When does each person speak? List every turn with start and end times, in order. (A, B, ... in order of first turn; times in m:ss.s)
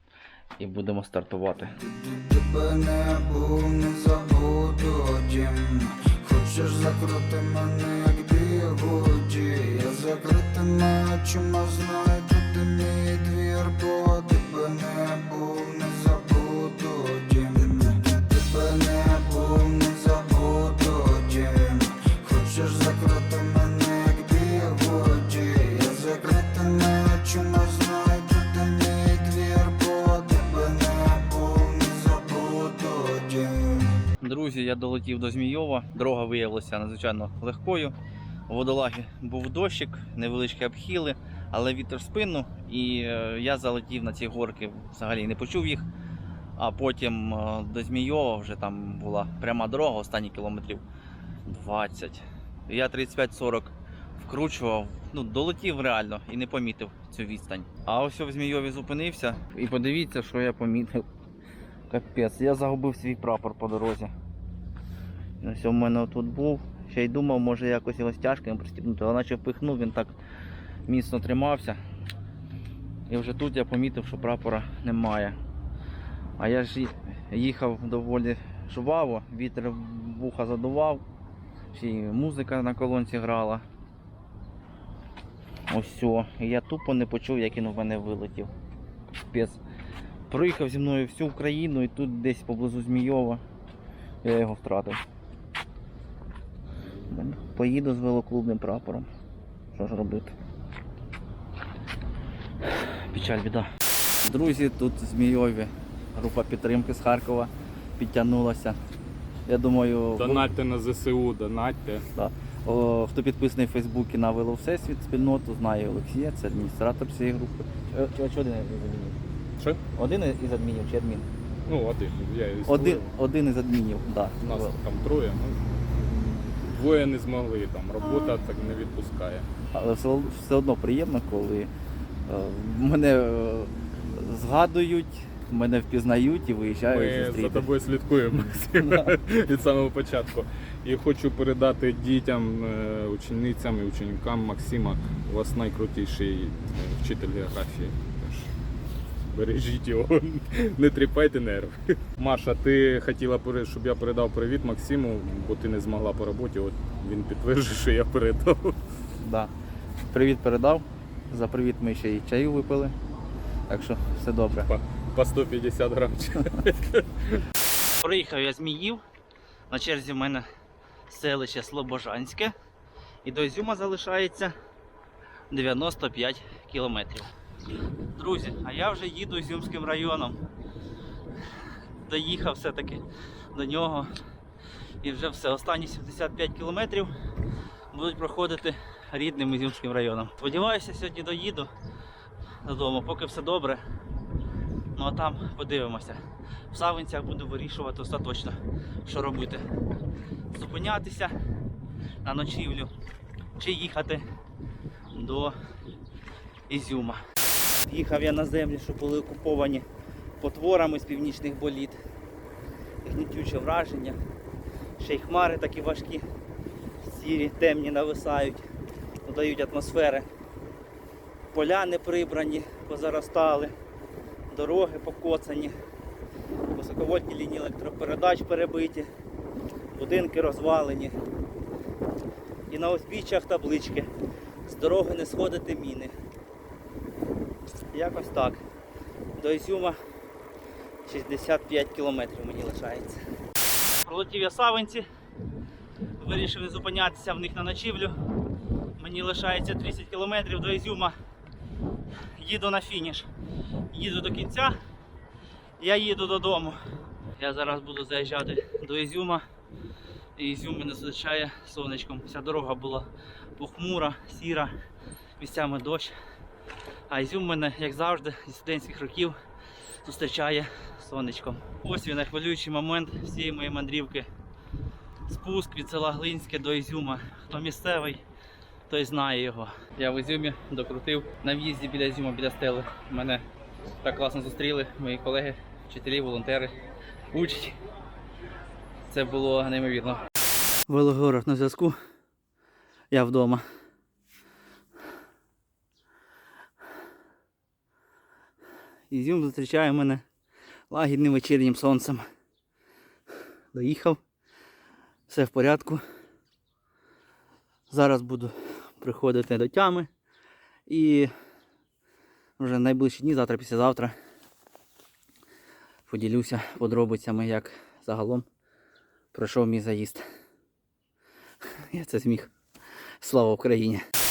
0:00.6-0:01.7 A
0:01.8-0:33.9 B
0:34.2-0:38.0 A
0:38.5-0:45.9 A
0:46.6-0:50.8 A
0:51.5-1:01.1 A
1:01.9-1:04.1 A
1:05.4-1:10.2 A
1:10.9-1:11.8 A
1:13.1-1:15.4 A
1:16.4-1:21.0 A
1:21.7-1:23.6 A
1:25.7-1:28.5 A
1:29.2-1:29.6 A
1:30.3-1:33.4 A
1:34.2-1:35.0 A
1:37.1-1:39.1 A
1:39.7-1:40.3 A
1:42.7-1:43.7 A
1:44.2-1:48.8 A
1:49.5-1:50.5 A
1:50.2-1:52.0 C
1:52.2-1:59.2 A
1:59.9-2:01.3 A
2:01.7-2:03.1 C
2:02.7-2:04.8 A
2:04.4-2:05.6 C
2:06.6-2:09.5 C
2:09.7-2:11.7 A
2:12.3-2:17.7 A
2:16.9-2:28.5 C
2:18.8-2:19.1 A
2:29.3-2:38.8 C
2:39.2-2:39.5 A
2:40.1-2:43.0 A
2:43.7-2:44.7 A
2:44.7-2:47.4 C
2:48.0-2:49.0 A
2:49.7-2:50.5 A
2:51.1-2:52.5 A
2:53.2-2:54.5 A
2:55.5-2:57.3 A
2:58.2-3:00.4 A
3:02.1-3:04.1 A
3:05.0-3:07.1 A
3:07.9-3:11.7 A
3:12.6-3:13.8 A
3:15.0-3:16.2 A
3:16.7-3:19.6 A
3:20.5-3:21.3 A
3:22.2-3:22.9 A
3:23.6-3:24.2 A
3:25.1-3:25.6 A
3:26.7-3:27.2 A
3:27.8-3:29.8 A
3:30.4-3:32.0 A
3:33.0-3:34.2 A
3:35.0-3:36.2 A
3:37.0-3:38.6 A
3:39.2-3:40.3 A
3:41.5-3:43.7 A
3:44.5-3:45.8 A
3:46.7-3:49.1 A
3:49.9-3:51.2 A
3:52.7-3:54.1 A
3:54.7-3:56.1 A
3:57.9-3:58.6 A
3:59.4-4:00.0 A
4:01.1-4:03.2 A
4:04.1-4:05.0 A
4:06.2-4:08.2 A
4:09.0-4:11.1 A
4:12.4-4:13.3 A
4:13.9-4:14.8 A
4:15.8-4:16.8 A
4:17.4-4:19.4 A
4:20.4-4:24.7 A
4:25.4-4:26.1 A
4:27.1-4:29.4 A
4:30.0-4:34.3 A
4:35.3-4:38.2 A
4:38.9-4:43.4 A
4:44.0-4:46.7 A
4:47.3-4:47.8 A
4:49.1-4:50.2 A
4:50.9-4:52.0 A
4:53.1-4:53.6 A
4:59.1-5:00.2 A
5:00.9-5:02.2 A
5:03.7-5:04.2 A
5:05.3-5:06.0 A
5:07.9-5:10.1 A
5:10.9-5:11.3 A
5:12.6-5:14.2 A
5:16.1-5:18.5 A
5:19.3-5:20.2 A
5:21.8-5:22.5 A
5:23.2-5:24.0 A